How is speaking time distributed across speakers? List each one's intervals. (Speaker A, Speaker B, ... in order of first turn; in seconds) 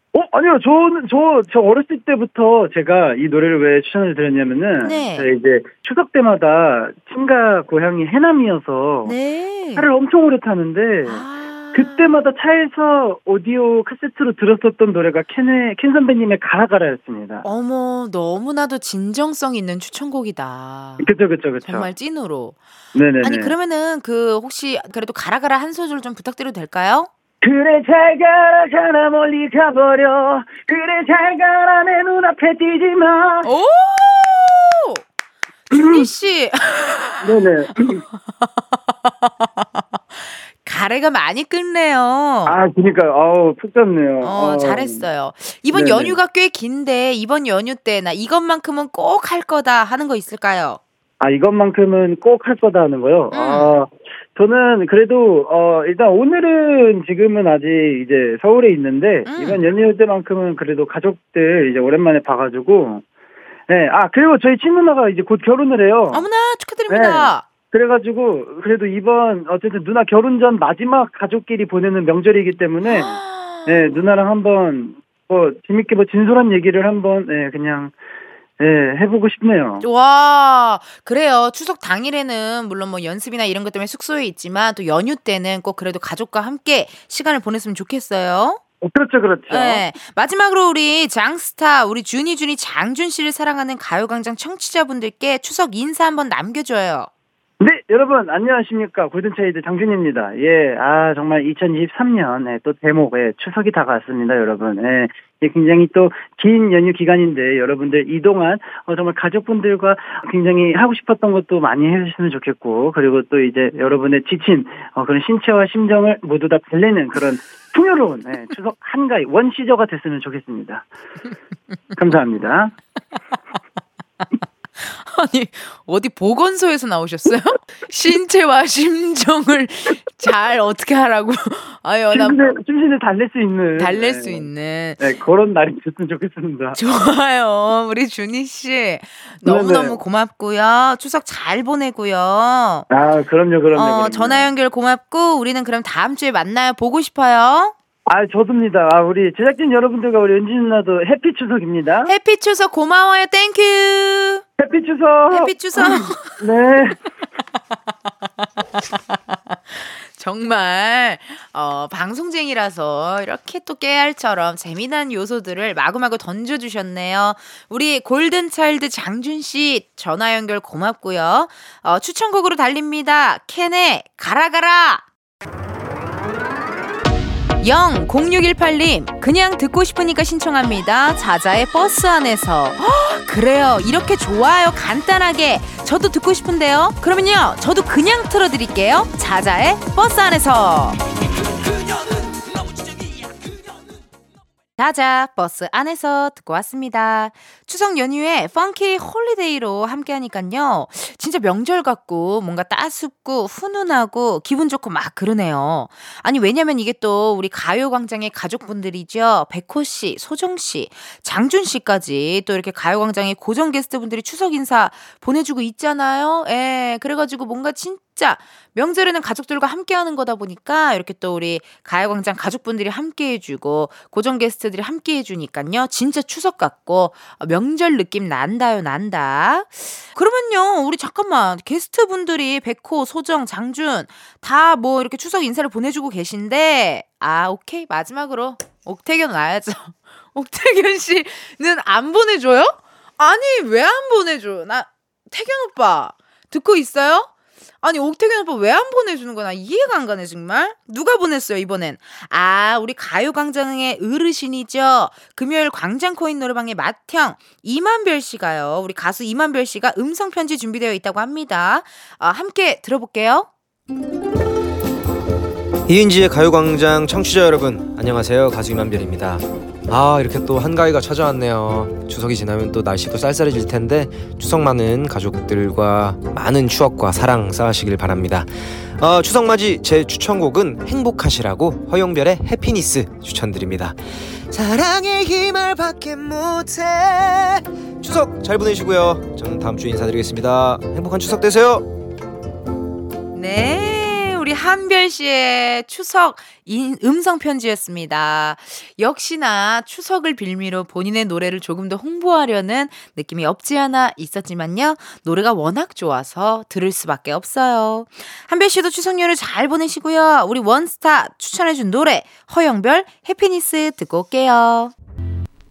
Speaker A: 0.1-9.1, 9.8-17.4, 21.0-21.9, 22.9-23.5, 27.4-33.5, 35.7-36.1, 37.2-38.0, 42.4-45.0, 45.7-46.2, 51.2-63.0, 63.7-66.2, 66.9-77.9, 78.6-79.8, 88.8-89.8, 97.6-120.9, 121.9-122.7, 132.1-134.5, 135.0-136.8, 139.4-140.0, 142.9-144.5, 148.1-152.1, 154.6-157.0
Speaker B: 4.8-5.3, 9.0-9.9, 11.0-12.2, 17.4-21.1, 21.6-22.6, 23.2-27.1, 33.4-35.0, 35.7-42.5, 44.2-50.8, 53.3-53.7, 59.2-59.6, 66.1-67.5, 72.8-73.9, 79.8-88.6, 89.5-97.1, 124.8-132.6, 133.8-135.0, 136.7-142.8, 143.7-147.7, 152.1-154.4, 155.3-156.4, 158.9-175.0, 177.6-191.0, 194.8-247.3, 247.8-263.5, 293.3-314.9
Speaker C: 265.9-284.0, 284.5-291.9